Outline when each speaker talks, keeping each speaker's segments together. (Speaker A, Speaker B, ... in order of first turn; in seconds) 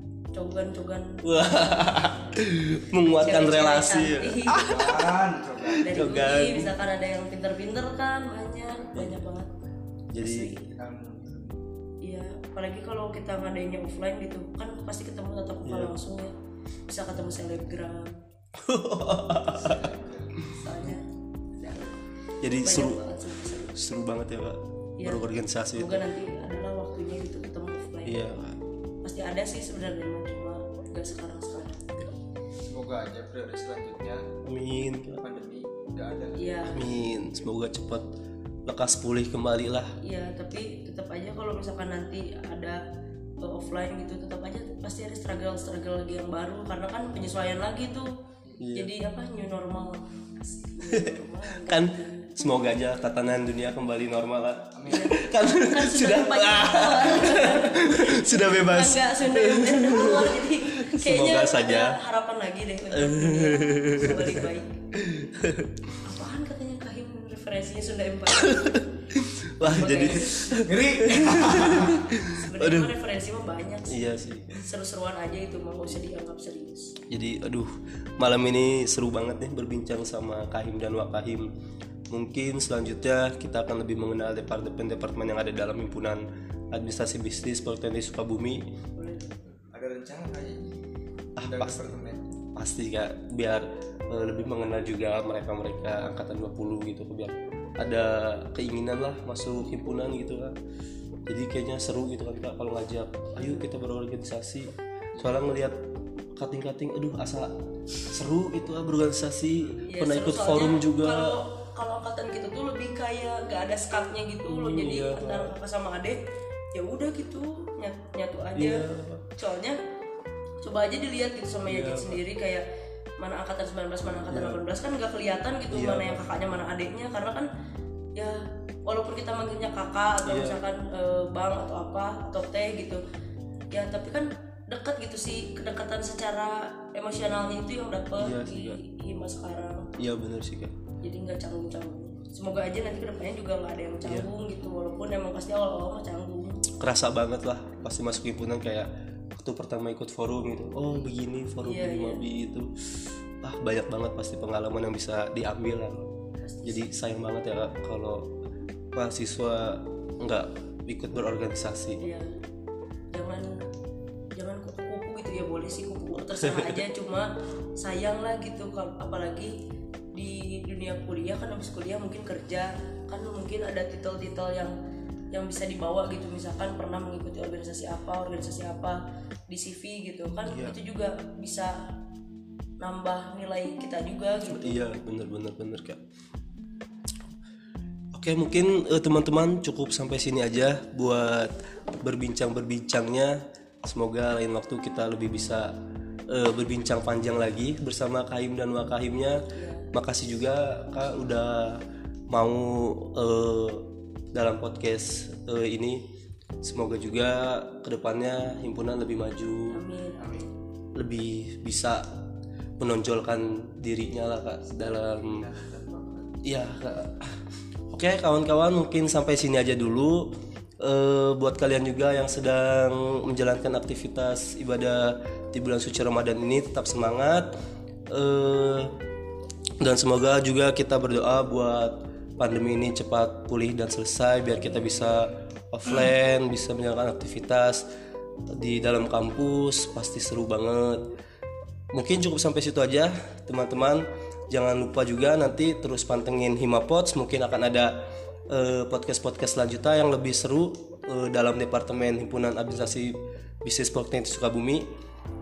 Speaker A: 0.3-2.1, 3.1-4.7, 5.8-9.5, 10.2-10.6, 12.0-16.3, 16.9-18.2, 20.5-21.1, 21.6-21.9, 22.6-23.8, 25.0-28.3, 29.0-32.1, 36.4-36.8, 40.0-42.8, 43.4-48.1, 48.7-52.3, 54.9-64.8, 66.0-68.9, 69.7-70.5, 72.3-74.0, 74.5-77.0, 89.0-89.4, 109.9-116.2, 116.7-119.8, 120.6-122.7, 123.2-127.5, 128.2-133.0, 133.7-139.9, 141.0-146.6, 151.6-152.2, 156.4-156.9, 162.0-162.4, 163.1-163.6, 164.4-169.6, 170.1-174.8, 175.3-181.8, 182.8-184.9, 199.5-199.9, 209.7-210.4
Speaker B: 1.2-5.1, 5.7-6.7, 10.1-10.5, 15.6-15.9, 18.6-20.5, 22.4-23.0, 23.7-26.1, 28.1-28.6, 34.5-35.2, 36.7-38.1, 38.7-39.9, 48.6-48.9, 50.9-62.0, 62.9-65.9, 68.3-72.9, 73.9-74.6, 77.1-81.5, 82.1-88.7, 91.4-91.9, 92.5-100.5, 101.3-105.8, 106.4-107.5, 108.1-111.3, 114.5-115.5, 118.6-119.2, 121.7-122.2, 124.3-124.6, 125.7-126.2, 130.3-130.6, 138.2-138.8, 140.0-140.7, 146.8-152.7, 153.4-156.1, 156.6-158.3, 158.9-162.0, 166.4-166.8, 180.5-180.8, 184.5-186.0, 188.1-195.7, 196.3-199.4, 199.9-206.0, 206.6-209.8, 211.0-212.1, 212.8-215.5, 216.4-217.4, 217.9-220.3, 220.8-227.5, 228.1-228.9, 229.8-237.9, 238.5-241.0, 241.9-247.9, 248.5-254.9
Speaker C: 4.6-6.0, 10.6-11.6, 19.6-20.3, 32.7-34.3, 35.2-36.4, 54.8-55.2, 70.6-72.1, 89.6-90.8, 91.4-92.3, 105.1-105.4, 210.2-210.5, 214.7-216.5